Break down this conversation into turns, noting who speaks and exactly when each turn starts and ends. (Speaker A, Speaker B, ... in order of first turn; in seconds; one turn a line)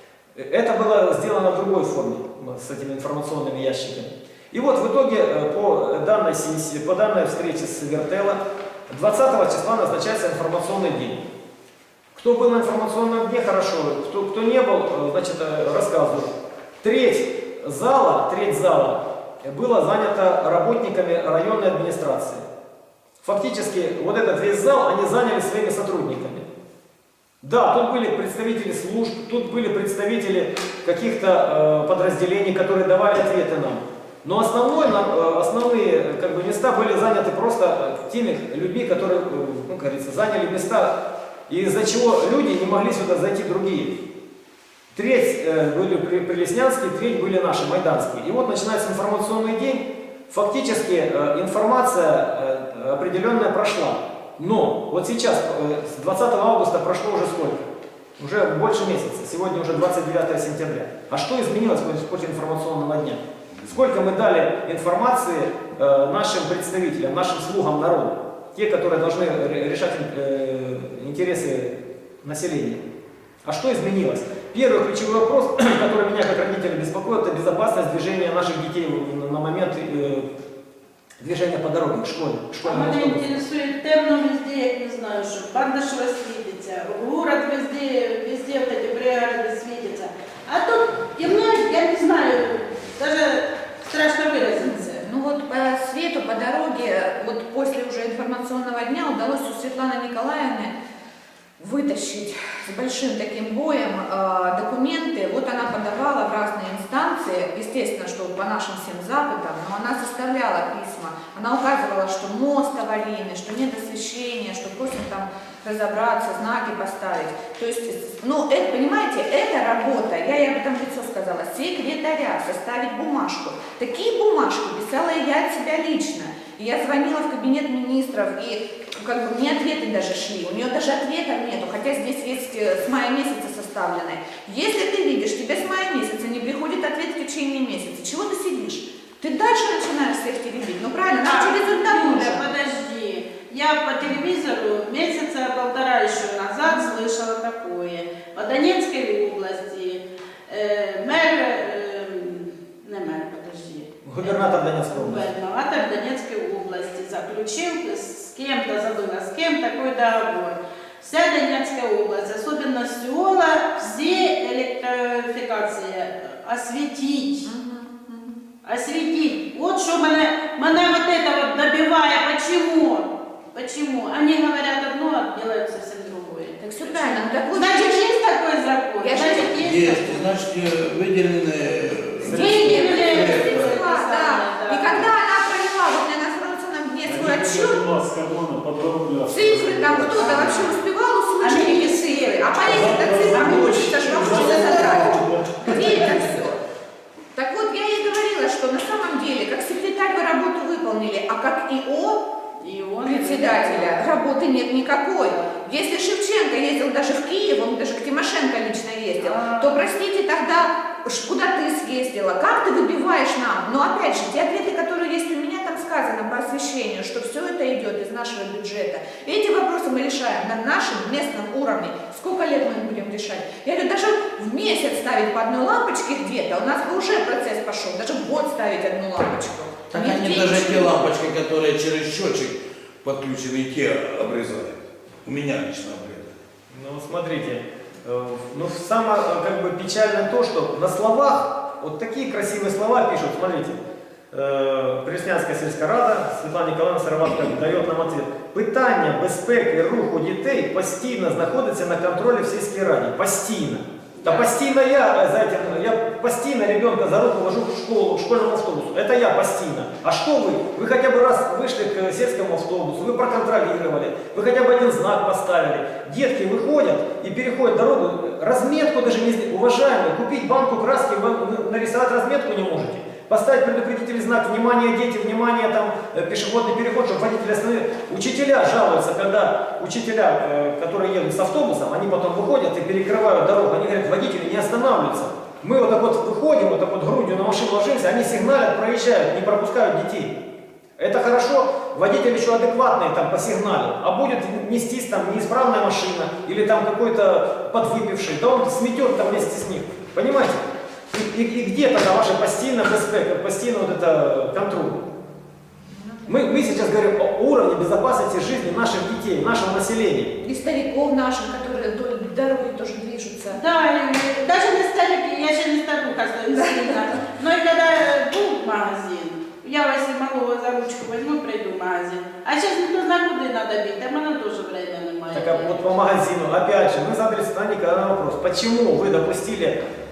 Speaker A: 0.4-11.2
Speaker A: 12.1-16.3
Speaker A: 16.8-22.4
Speaker A: 23.2-26.5
Speaker A: 27.4-41.0
Speaker A: 41.5-44.0
Speaker A: 44.9-57.7
Speaker A: 58.2-72.8
Speaker A: 73.5-80.3
Speaker A: 81.2-83.3
Speaker B: 82.6-95.0
Speaker C: 94.4-100.7
Speaker C: 101.6-142.5
Speaker B: 141.2-167.5
Speaker A: 154.0-155.3
Speaker C: 167.5-168.3
Speaker B: 168.6-180.3
Speaker C: 176.6-178.1
Speaker C: 179.0-179.5
Speaker D: 179.6-183.8
Speaker A: 182.2-182.8
Speaker B: 182.3-185.1
Speaker C: 182.3-187.8
Speaker E: 187.0-190.1
Speaker C: 189.3-196.6
Speaker D: 190.0-190.7
Speaker B: 191.4-196.2
Speaker E: 192.7-196.5
Speaker C: 197.3-202.2
Speaker B: 202.6-204.1
Speaker C: 203.1-231.0
Speaker B: 205.2-205.6
Speaker B: 209.2-209.9
Speaker D: 229.9-236.4
Speaker A: 236.7-243.8
Speaker A: 244.3-290.4
Speaker B: 254.2-254.5
Speaker A: 291.0-300.6
Speaker A: 301.1-305.1
Speaker C: 305.9-306.6
Speaker A: 306.3-310.3
Speaker C: 310.4-313.6
Speaker B: 313.5-325.8
Speaker C: 316.5-316.8
Speaker A: 325.3-329.8